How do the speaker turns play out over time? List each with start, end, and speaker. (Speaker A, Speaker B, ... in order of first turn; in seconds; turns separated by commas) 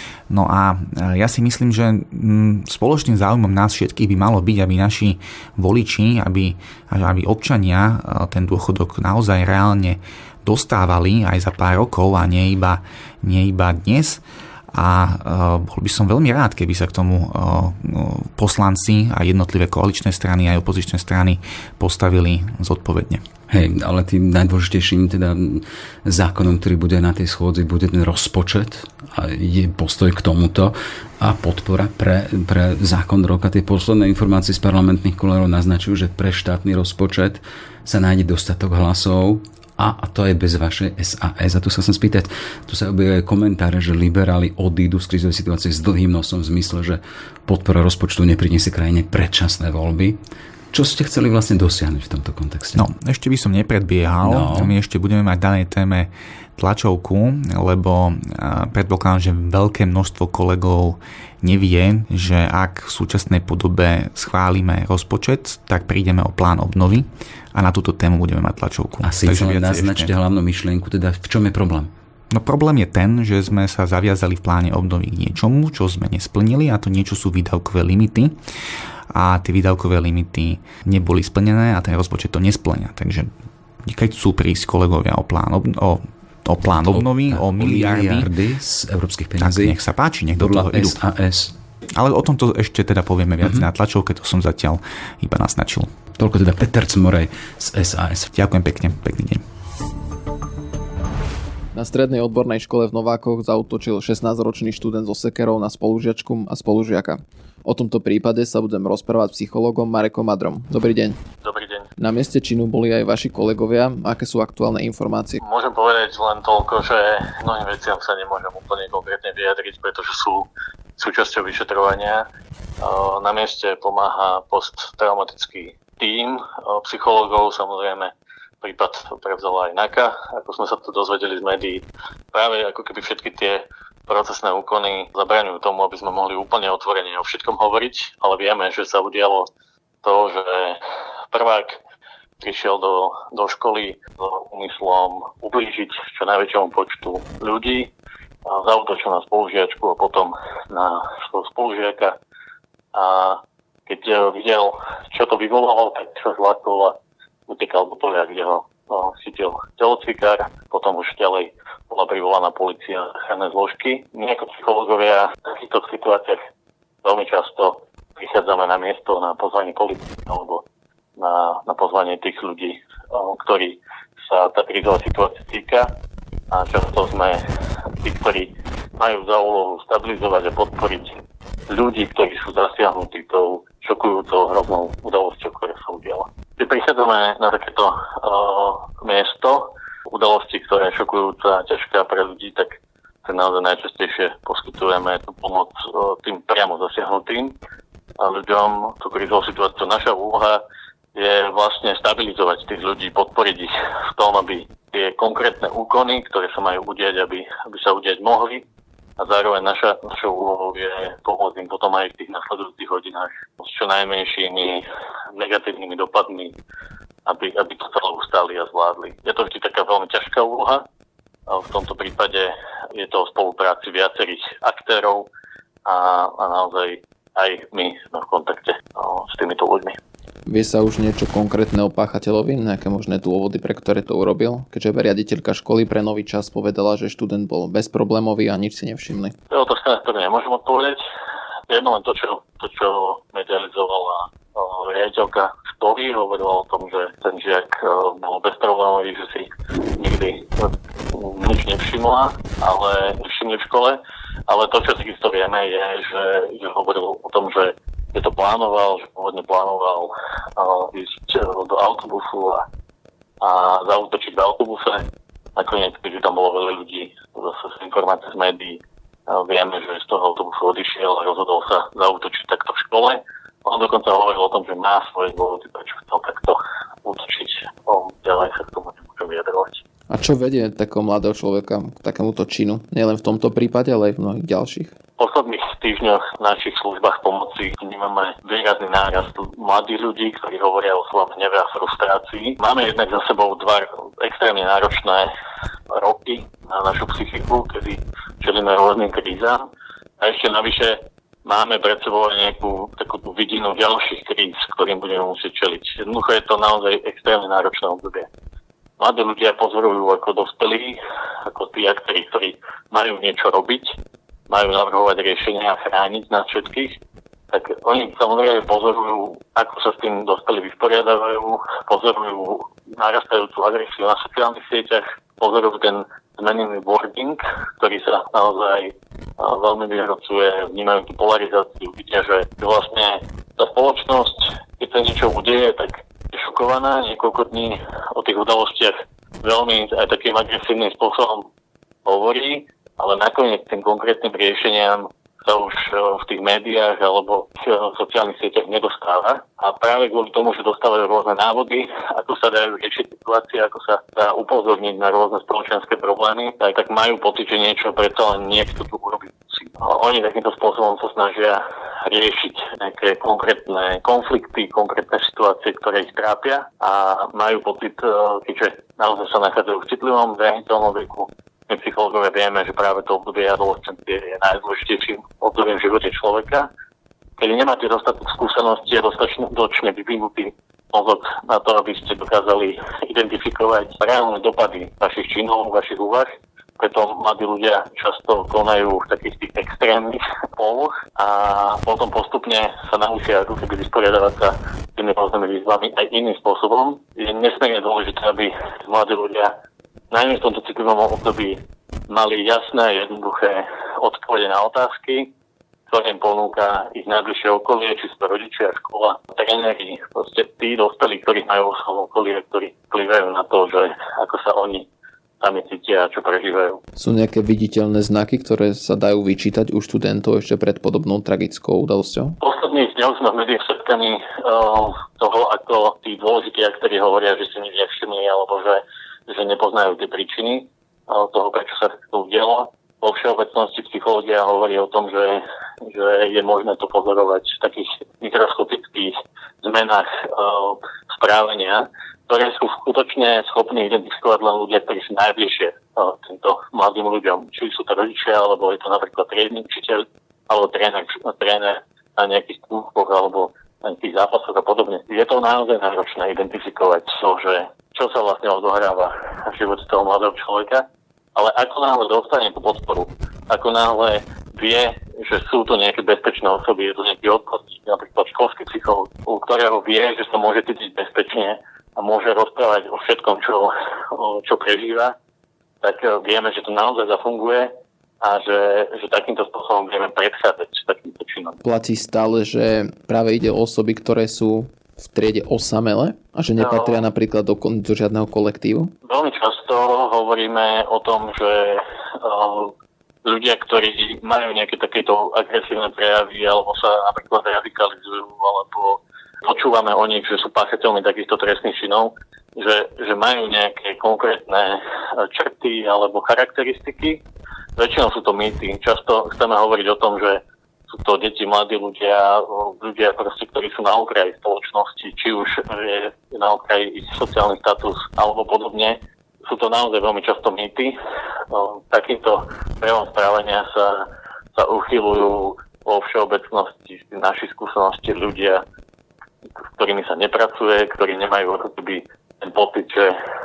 Speaker A: 0.3-14.2, Speaker A: 14.7-23.2, Speaker B: 23.5-50.2, Speaker B: 50.7-52.9, Speaker A: 52.8-70.1, Speaker B: 54.2-54.8, Speaker B: 69.0-71.9, Speaker A: 72.3-78.4, Speaker A: 79.1-83.3, Speaker A: 83.8-88.3, Speaker B: 86.9-89.8, Speaker A: 89.4-91.0, Speaker B: 90.4-91.5, Speaker A: 91.9-95.9, Speaker B: 96.2-98.3, Speaker A: 98.3-99.4, Speaker C: 101.7-111.2, Speaker D: 111.4-111.9, Speaker C: 112.0-115.4, Speaker D: 115.4-122.3, Speaker D: 122.8-139.5, Speaker D: 140.0-140.8, Speaker D: 141.3-141.8, Speaker D: 142.4-147.9, Speaker D: 148.5-152.2, Speaker D: 152.9-157.0, Speaker D: 157.5-166.4, Speaker D: 167.0-170.6, Speaker D: 171.2-175.9, Speaker D: 176.5-177.4, Speaker D: 178.0-197.6, Speaker D: 198.2-200.6, Speaker D: 201.2-208.6, Speaker D: 209.2-216.5, Speaker D: 217.3-220.8, Speaker D: 221.5-225.3, Speaker D: 225.9-230.0, Speaker C: 230.5-239.3, Speaker D: 239.5-241.0, Speaker D: 241.7-262.6, Speaker D: 263.4-265.0, Speaker D: 265.6-279.8, Speaker C: 280.1-284.9, Speaker D: 285.2-295.3, Speaker D: 295.9-299.6, Speaker D: 300.2-308.3, Speaker D: 309.0-313.9, Speaker D: 314.5-316.9, Speaker D: 317.5-341.5, Speaker D: 342.1-376.7, Speaker D: 377.4-399.5, Speaker D: 400.1-405.3, Speaker D: 405.9-414.9, Speaker D: 415.4-416.8, Speaker C: 417.0-422.4, Speaker D: 422.4-460.9, Speaker D: 461.4-475.1, Speaker D: 475.8-481.6, Speaker C: 481.6-488.9, Speaker D: 486.6-487.1, Speaker D: 489.0-492.7, Speaker D: 493.2-507.2, Speaker D: 507.8-521.0, Speaker D: 521.5-528.6, Speaker D: 529.8-533.2